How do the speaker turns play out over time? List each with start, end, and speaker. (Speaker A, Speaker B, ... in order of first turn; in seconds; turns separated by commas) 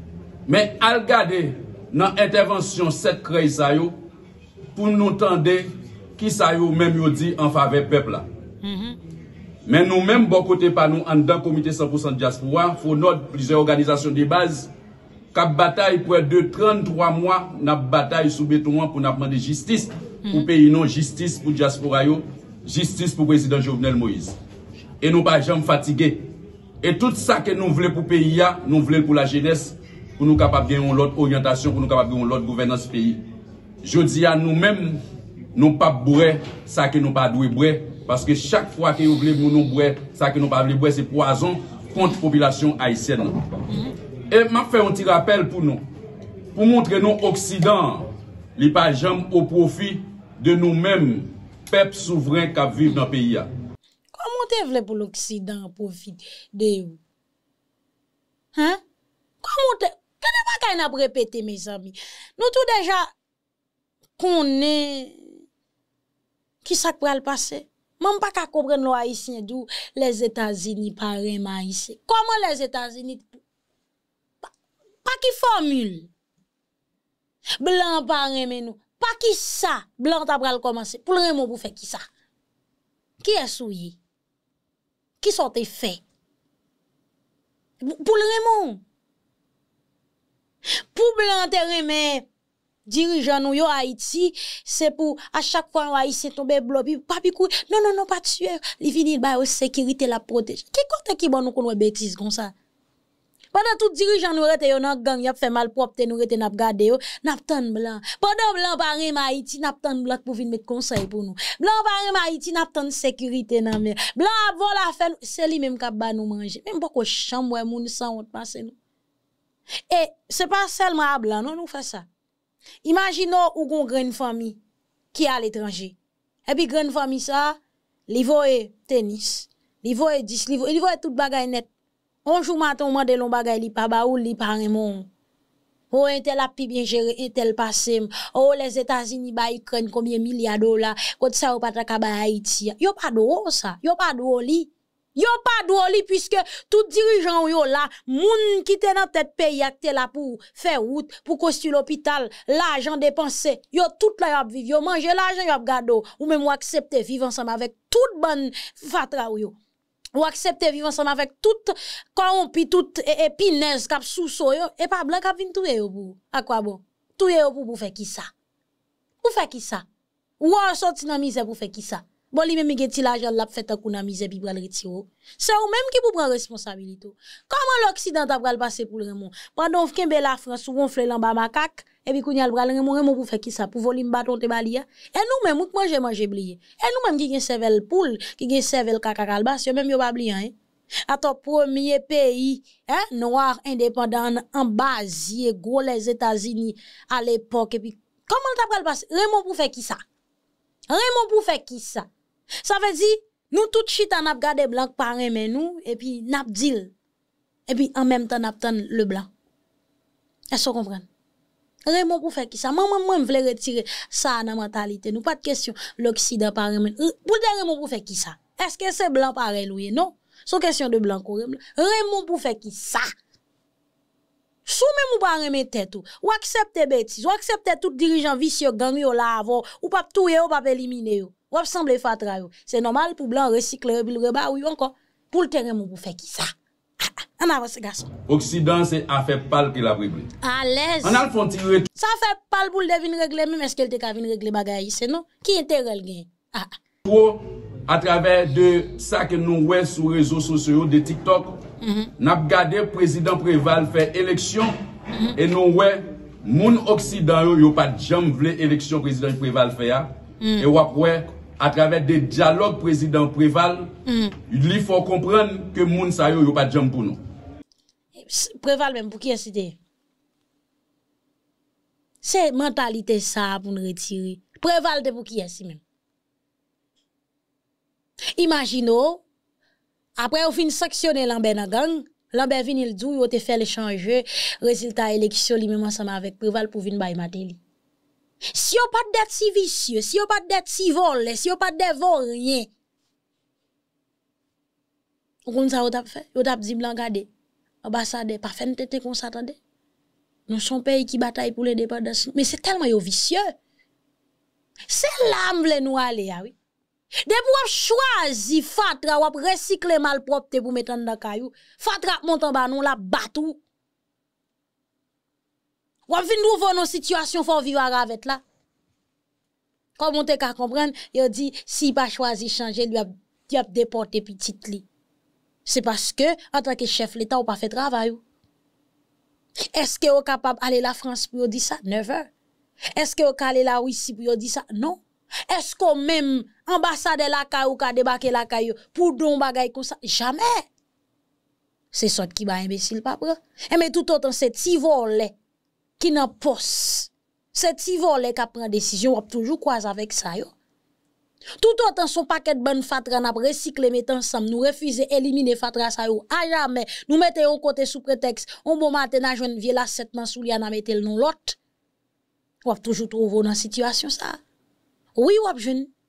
Speaker A: 0.5-3.9, Speaker A: 4.7-8.2, Speaker B: 8.6-9.0, Speaker A: 9.6-14.7, Speaker A: 15.3-24.4, Speaker A: 25.0-26.3, Speaker A: 26.8-33.2, Speaker A: 33.8-35.0, Speaker A: 35.5-43.4, Speaker A: 44.3-45.8, Speaker A: 46.5-53.5, Speaker B: 54.1-57.0, Speaker B: 58.5-58.8, Speaker B: 59.4-63.1, Speaker B: 64.2-65.3, Speaker B: 66.6-73.4, Speaker B: 75.0-76.1, Speaker B: 77.6-82.0, Speaker B: 83.2-84.0, Speaker B: 85.2-86.0, Speaker B: 87.8-88.8, Speaker B: 90.8-92.2, Speaker B: 92.8-102.5, Speaker B: 103.5-118.8, Speaker B: 119.9-122.1, Speaker B: 122.8-124.6, Speaker B: 125.1-126.0, Speaker B: 126.5-127.6, Speaker B: 128.1-131.7, Speaker B: 132.2-135.1, Speaker B: 135.9-159.5, Speaker B: 160.1-168.3, Speaker B: 169.2-169.8, Speaker B: 170.4-190.5, Speaker B: 191.1-200.0, Speaker B: 200.9-202.1, Speaker B: 202.6-206.9, Speaker B: 207.7-209.3, Speaker B: 210.5-211.1, Speaker B: 211.8-223.1, Speaker B: 224.7-238.1, Speaker A: 238.3-240.3, Speaker B: 240.4-241.2, Speaker A: 241.0-241.9, Speaker B: 241.9-246.7, Speaker A: 247.0-251.6, Speaker B: 251.8-252.1, Speaker A: 252.2-254.8, Speaker A: 255.3-263.9, Speaker B: 260.4-260.7, Speaker B: 264.1-264.4, Speaker A: 264.5-267.2, Speaker B: 268.2-269.8, Speaker B: 272.2-275.8, Speaker B: 278.4-279.2, Speaker B: 280.2-287.6, Speaker B: 288.5-292.7, Speaker B: 295.4-297.3, Speaker B: 297.8-299.6, Speaker B: 300.5-303.5, Speaker B: 304.9-306.5, Speaker B: 307.2-313.6, Speaker B: 316.1-318.4, Speaker B: 320.0-324.8, Speaker B: 325.6-328.2, Speaker B: 329.7-332.3, Speaker B: 332.9-340.7, Speaker B: 341.9-345.3, Speaker B: 346.0-350.5, Speaker B: 351.6-361.6, Speaker B: 362.6-364.4, Speaker B: 365.1-365.9